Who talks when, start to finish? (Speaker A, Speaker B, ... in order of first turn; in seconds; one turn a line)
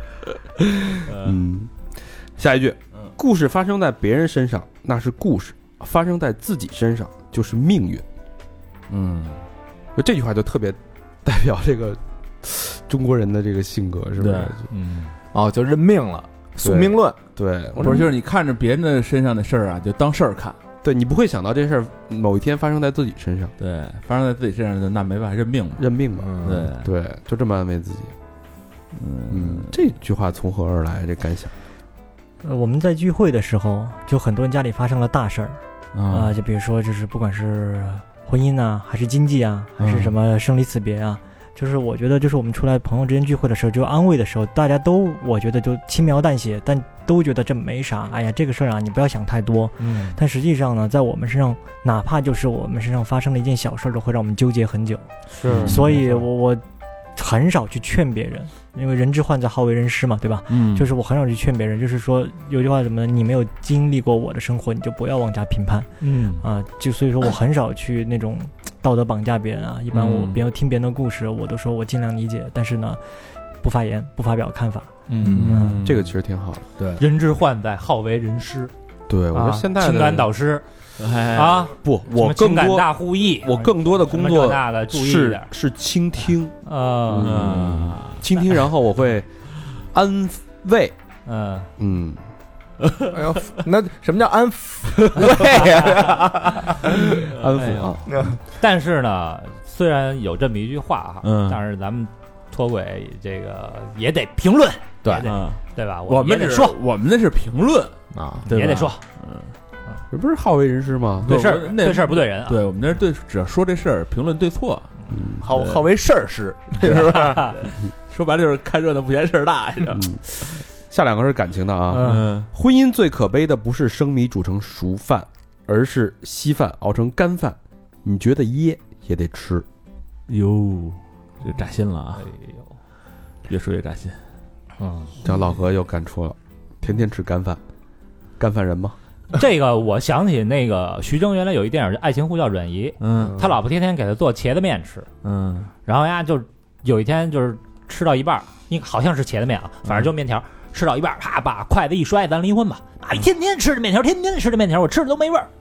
Speaker A: 0.6-1.7
Speaker A: 2.4-8.0
Speaker B: 8.9-9.4
Speaker A: 10.0-14.7
Speaker B: 14.2-14.6
Speaker C: 14.7-15.1
Speaker D: 15.3-17.2
Speaker A: 16.6-18.1
Speaker B: 17.8-20.6
Speaker A: 20.8-23.5
Speaker B: 23.6-25.9
Speaker A: 25.8-28.1
Speaker D: 26.2-26.7
Speaker B: 26.4-26.9
Speaker B: 28.9-29.8
Speaker A: 29.3-31.5
Speaker E: 32.4-55.1
Speaker B: 35.9-36.4
Speaker B: 39.8-40.1
Speaker C: 49.8-50.2
Speaker C: 55.3-56.0
Speaker A: 55.5-55.7
Speaker B: 55.5-56.2
Speaker E: 55.6-56.6
Speaker E: 57.2-73.0
Speaker B: 60.5-60.9
Speaker C: 66.0-66.4
Speaker B: 69.9-70.4
Speaker E: 73.6-74.9
Speaker C: 75.1-75.3
Speaker B: 75.1-76.1
Speaker D: 75.2-75.7
Speaker A: 75.8-76.7
Speaker C: 77.0-78.7
Speaker A: 79.1-80.3
Speaker C: 79.3-80.6
Speaker B: 81.0-81.7
Speaker C: 81.3-85.5
Speaker A: 81.8-86.5
Speaker C: 86.7-87.4
Speaker A: 87.1-91.0
Speaker B: 87.2-88.2
Speaker C: 91.3-91.7
Speaker A: 91.8-92.2
Speaker B: 92.8-93.2
Speaker D: 93.1-97.0
Speaker A: 96.8-98.1
Speaker B: 97.4-98.0
Speaker D: 98.1-98.4
Speaker C: 98.6-106.8
Speaker B: 101.2-101.6
Speaker D: 105.0-105.3
Speaker B: 105.2-107.9
Speaker D: 108.1-108.5
Speaker B: 108.5-109.5
Speaker C: 108.5-109.0
Speaker A: 110.1-111.3
Speaker C: 111.2-112.6
Speaker B: 111.2-114.9
Speaker A: 115.1-115.4
Speaker D: 115.4-117.5
Speaker B: 115.5-115.8
Speaker B: 116.8-120.6
Speaker A: 119.9-120.2
Speaker A: 120.9-129.7
Speaker C: 121.9-122.3
Speaker B: 122.0-122.5
Speaker B: 130.3-132.3
Speaker C: 132.2-132.7
Speaker B: 133.5-134.2
Speaker C: 134.8-135.2
Speaker A: 135.2-137.6
Speaker A: 138.4-139.0
Speaker C: 139.3-145.1
Speaker B: 143.0-143.5
Speaker B: 145.2-145.7
Speaker C: 145.9-155.5